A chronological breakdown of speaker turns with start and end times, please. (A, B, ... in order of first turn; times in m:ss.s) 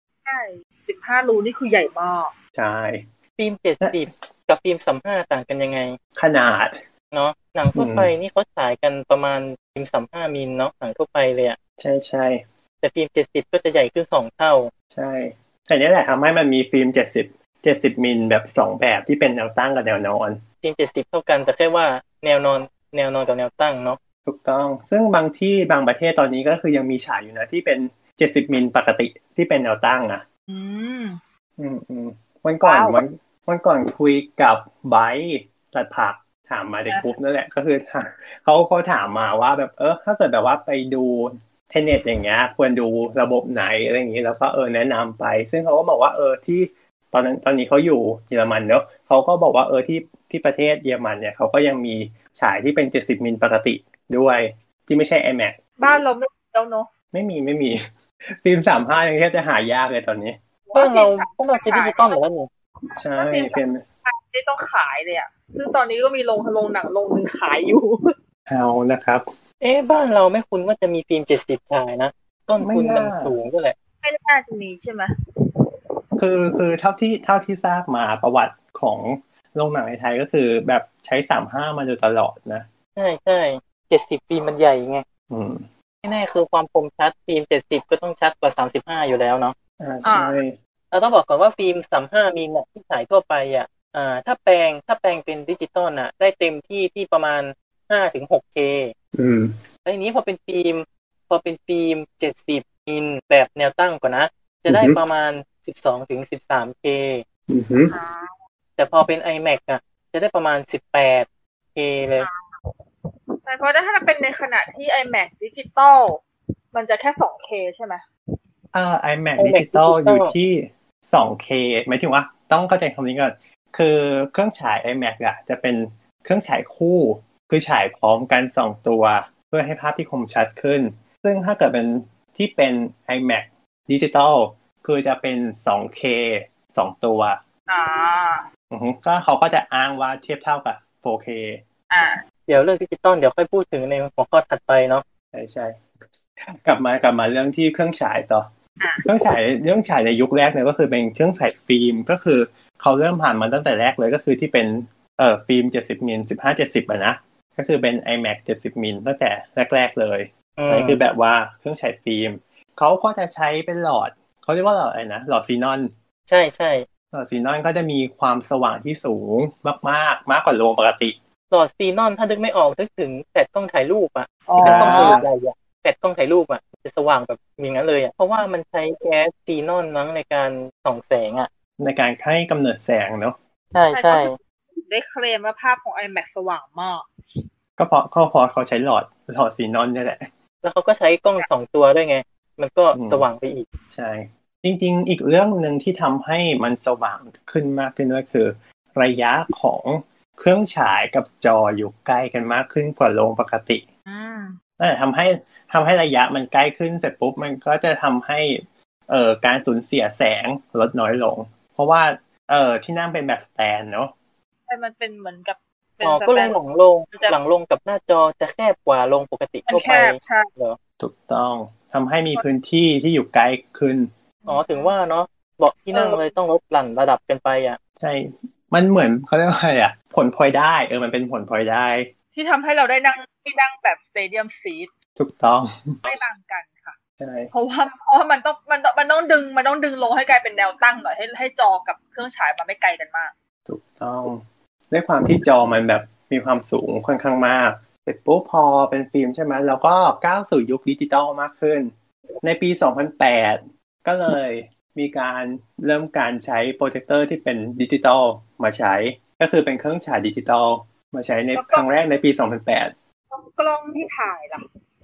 0:00.2-0:02.3 A
0:02.5-0:03.1 B
0:03.4-0:06.0 C
0:06.2-0:06.8 B
0:07.1-0:11.6 C
0:07.7-0:08.1 B
0:11.8-0:12.4 B
0:12.8-0:14.7 C
0:14.9-0:20.4 B
0:20.6-0:24.0 C
0:24.2-0:30.2 B
0:30.5-0:31.2 A
0:31.6-0:55.6 B
0:32.6-0:33.0 A
0:55.8-0:56.9 A
0:57.1-1:00.4 B
1:00.7-1:02.2 A
1:00.7-1:02.5 C
1:03.0-1:08.1 A
1:03.0-1:03.8 B
1:08.5-1:09.3 B
1:09.6-1:13.8 C
1:12.6-1:13.3 B
1:14.0-1:15.1 A
1:16.2-1:22.7 B
1:23.0-1:25.0 C
1:25.3-1:25.7 B
1:26.0-1:29.5 C
1:29.8-1:30.6 B
1:30.0-1:30.4 A
1:30.9-1:38.9 C
1:39.1-1:39.6 B
1:39.8-1:47.2 C
1:44.7-1:45.0 B
1:47.5-1:47.9 B
1:47.9-1:48.4 A
1:48.8-1:52.3 C
1:53.4-1:58.0 A
1:58.7-2:17.4 B
1:59.4-2:00.3 C
2:17.7-2:18.4 A
2:18.7-2:21.6 B
2:21.9-2:22.2 A
2:22.5-2:25.0 C
2:25.3-2:25.8 B
2:26.4-2:28.5 B
2:28.8-2:29.0 A
2:29.0-2:45.9 B
2:40.6-2:41.0 C
2:46.3-2:46.8 C
2:47.1-2:51.2 B
2:51.5-3:01.5 C
2:54.5-2:55.2 A
2:54.6-2:55.3 B
3:01.8-3:03.4 B
3:03.7-3:04.3 C
3:03.9-3:07.0 A
3:07.8-3:10.3 B
3:10.6-3:13.7 C
3:12.9-3:13.2 B
3:13.9-3:23.8 B
3:24.1-3:24.6 A
3:24.8-3:34.1 B
3:34.7-3:36.6 A
3:36.0-3:40.8 C
3:39.7-3:40.5 A
3:41.0-3:44.1 B
3:44.4-3:44.9 A
3:44.5-3:47.8 C
3:45.9-3:46.2 A
3:48.0-3:52.1 B
3:52.3-3:54.9 A
3:55.2-3:56.0 B
3:56.0-3:57.0 A
3:57.2-3:57.5 B
3:57.5-4:03.3 A
4:03.7-4:11.9 B
4:12.4-4:22.9 B
4:21.5-4:22.2 A
4:23.3-4:24.6 A